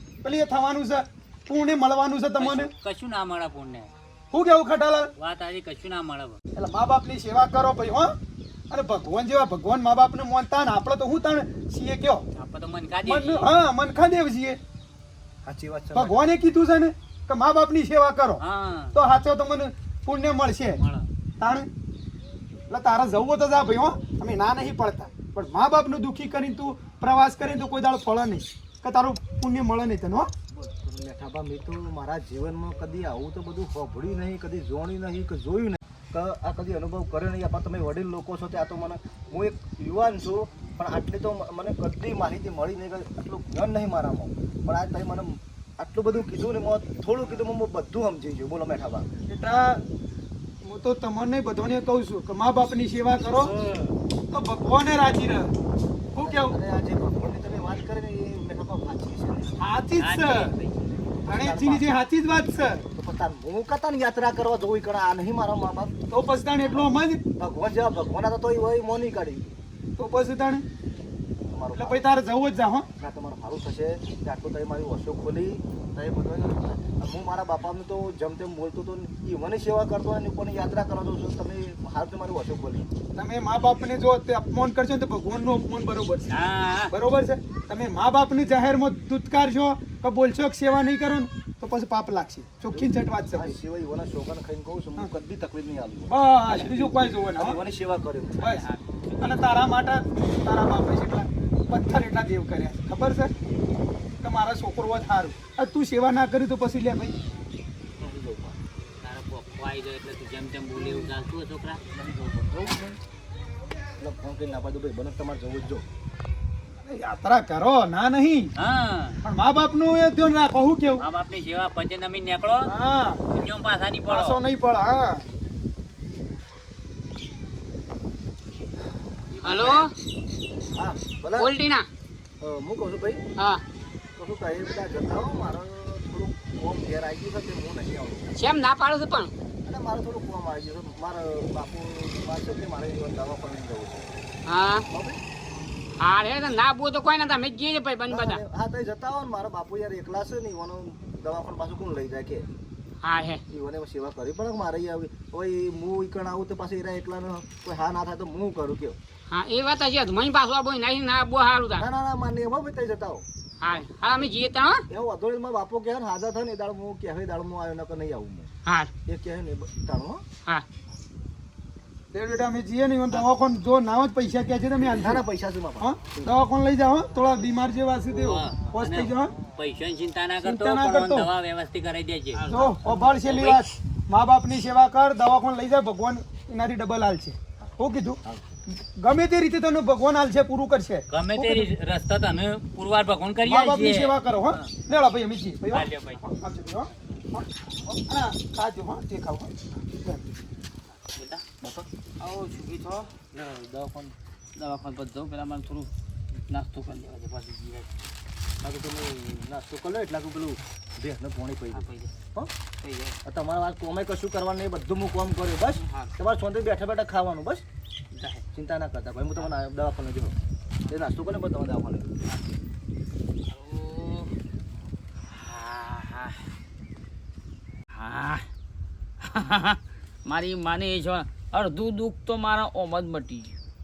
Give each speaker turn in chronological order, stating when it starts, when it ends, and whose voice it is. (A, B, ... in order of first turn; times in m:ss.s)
0:00.2-0:02.7 A
0:02.4-0:03.9 B
0:04.3-0:05.1 A
0:05.2-0:06.4 B
0:06.6-0:08.1 A
0:08.7-0:12.2 A
0:12.4-0:13.5 B
0:13.0-0:14.6 A
0:15.4-0:16.3 C
0:15.9-0:18.4 A
0:18.4-0:19.0 B
0:18.9-0:20.8 A
0:20.7-0:21.0 B
0:21.4-0:21.7 A
0:22.7-0:30.3 A
0:30.5-0:49.1 C
0:49.3-0:49.8 A
0:50.6-0:53.5 A
0:53.4-0:53.9 B
0:54.3-0:55.5 A
0:56.2-0:56.6 A
0:56.2-0:59.5 C
0:59.6-1:00.5 A
1:00.0-1:00.8 B
1:01.2-1:01.8 C
1:01.3-1:02.8 A
1:02.9-1:05.9 C
1:06.1-1:07.2 A
1:07.4-1:09.4 C
1:10.0-1:10.6 A
1:11.5-1:12.1 C
1:11.8-1:12.9 A
1:13.0-1:22.9 C
1:23.2-1:26.3 A
1:26.3-1:26.9 B
1:26.9-1:33.6 A
1:32.7-1:38.5 C
1:36.1-1:37.6 A
1:38.4-1:39.4 D
1:39.2-1:43.3 A
1:44.2-1:47.1 A
1:48.0-1:48.6 C
1:49.0-1:51.8 B
1:51.9-1:53.0 C
1:54.0-1:55.8 C
1:56.8-1:58.5 A
1:58.6-1:59.2 B
1:59.2-2:01.0 A
2:01.0-2:02.7 B
2:02.6-2:03.2 A
2:03.3-2:04.4 B
2:04.1-2:05.2 A
2:09.3-2:09.9 B
2:09.4-2:09.9 E
2:10.7-2:11.5 C
2:11.4-2:11.8 E
2:12.4-2:13.2 C
2:14.2-2:18.3 C
2:18.3-2:19.3 E
2:19.6-2:24.1 C
2:24.5-2:24.8 E
2:24.9-2:25.2 C
2:26.0-2:28.4 E
2:28.1-2:32.5 C
2:33.0-2:33.4 E
2:33.5-2:39.0 C
2:39.3-2:41.8 E
2:41.8-2:43.2 C
2:43.6-2:44.8 E
2:44.9-2:48.5 C
2:48.6-2:48.9 E
2:49.1-2:50.2 C
2:52.1-2:55.2 A
2:54.9-2:56.3 C
2:55.8-2:59.3 A
2:58.1-3:03.6 B
3:00.4-3:01.3 A
3:02.3-3:02.6 D
3:02.4-3:08.2 A
3:09.0-3:11.7 A
3:11.1-3:14.1 B
3:13.4-3:17.5 A
3:15.7-3:16.2 B
3:18.1-3:20.3 A
3:21.6-3:21.9 C
3:22.2-3:25.9 D
3:26.5-3:27.9 D
3:28.6-3:32.5 C
3:31.7-3:32.1 D
3:32.8-3:33.2 D
3:33.2-3:37.6 C
3:35.8-3:36.2 D
3:38.1-3:38.4 D
3:38.5-3:40.3 C
3:40.9-3:42.1 C
3:43.5-3:44.3 D
3:45.3-3:46.4 D
3:47.9-3:48.5 D
3:49.2-3:53.5 D